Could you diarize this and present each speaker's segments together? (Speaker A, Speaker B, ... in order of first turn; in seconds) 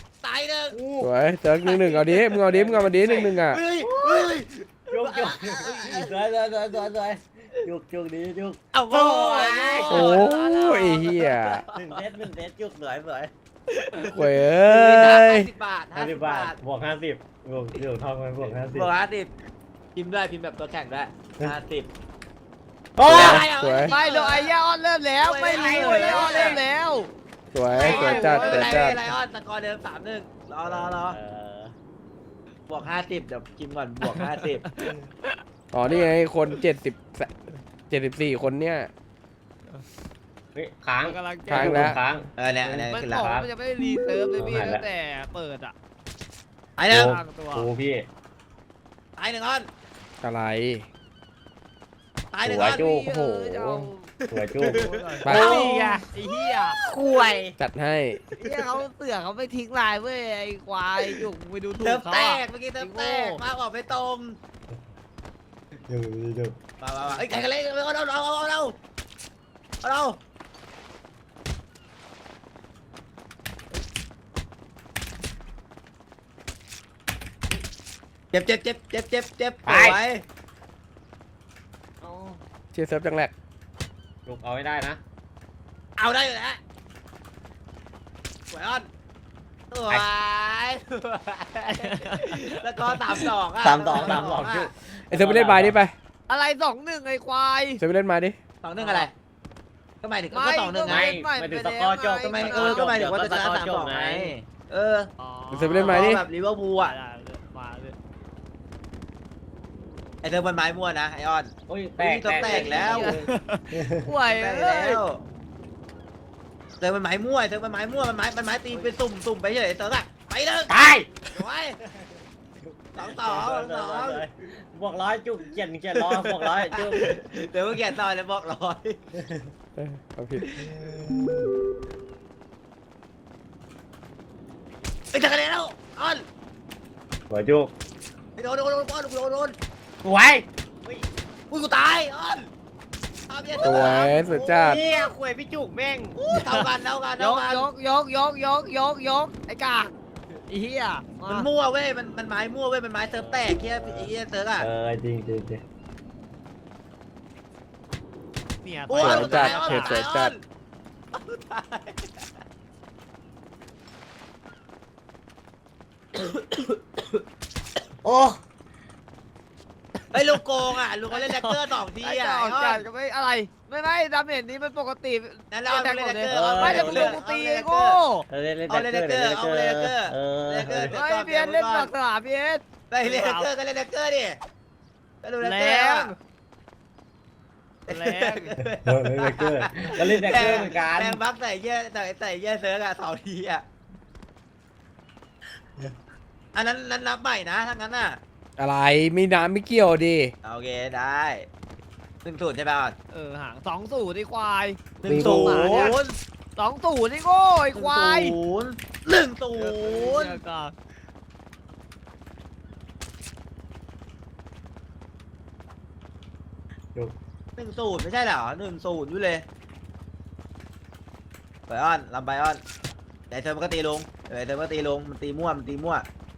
Speaker A: 0.2-0.8, 1.6-2.2, 3.0-6.1, 8.7-12.0, 13.7-16.6, 18.5-19.3, 19.9-21.9, 23.1-24.5, 25.2-26.6, 27.8-31.2, 32.7-34.6, 42.4-43.3, 46.8-47.1, 49.2-49.7, 52.3-52.9, 54.2-55.1, 58.3-58.7, 61.8-64.4, 66.8-68.8, 69.8-70.2, 78.3-80.2, 86.0-86.6, 88.5-88.9, 89.7-94.7, 98.6-99.1, 100.0-101.1, 102.2-105.1, 105.8-107.0, 110.2-113.1, 114.3-115.2, 116.8-120.8, 121.3-121.8, 123.0-124.2, 125.9-129.0, 135.1-136.2, 138.4-139.6, 141.5-142.5, 143.3-145.0, 146.2-147.7, 151.3-154.7, 158.9-160.4, 161.1-162.3, 170.1-172.8, 175.5-178.0, 178.7-181.9, 182.9-184.4, 185.2-186.1, 187.9-193.6, 196.6-198.2, 200.4-201.5, 202.2-203.0, 205.0-206.2, 207.8-210.4, 217.6-219.4, 221.7-222.6, 223.3-226.1
Speaker B: 0.7-1.1, 2.3-3.2, 3.8-10.2, 11.7-13.3, 15.9-18.9, 23.0-23.5, 25.5-26.6, 27.7-28.6, 30.6-31.7, 40.5-43.5, 44.4-44.8, 46.9-48.1, 52.4-53.1, 54.3-56.1, 56.6-57.6, 65.9-66.6, 79.7-80.0, 82.0-82.4, 84.3-85.0, 93.1-95.8, 100.9-104.3, 111.7-114.1, 120.7-121.1, 122.6-127.2, 129.2-129.5, 130.6-131.5, 137.3-137.7, 140.0-141.1, 144.4-146.2, 153.1-155.6, 168.0-168.4, 176.3-177.2, 178.3-180.9, 188.8-191.2, 205.1-206.0
Speaker C: 1.0-3.6, 9.9-11.6, 14.1-15.5, 23.1-23.9, 27.5-29.0, 35.7-37.3, 37.9-38.9, 41.5-42.0, 50.2-50.9, 53.1-53.9, 55.2-55.6, 57.6-58.2, 82.7-83.3, 95.1-95.9, 97.8-98.4, 105.5-106.2, 129.8-130.6, 143.6-144.8, 158.9-160.3, 198.6-200.3
Speaker D: 23.9-27.1, 28.3-28.9, 34.8-35.4, 41.0-41.9, 42.9-45.7, 46.9-47.7, 52.8-54.1, 54.8-56.8, 58.4-63.4, 91.7-92.5, 96.3-97.8, 98.8-99.1, 100.3-102.9, 105.2-106.2, 106.8-108.0, 112.4-115.0, 146.3-149.9, 150.5-151.5, 158.6-160.0, 171.1-178.3, 180.9-183.5, 185.4-186.2, 187.9-188.5, 190.3-190.7, 203.1-206.0, 206.6-208.4, 209.6-210.7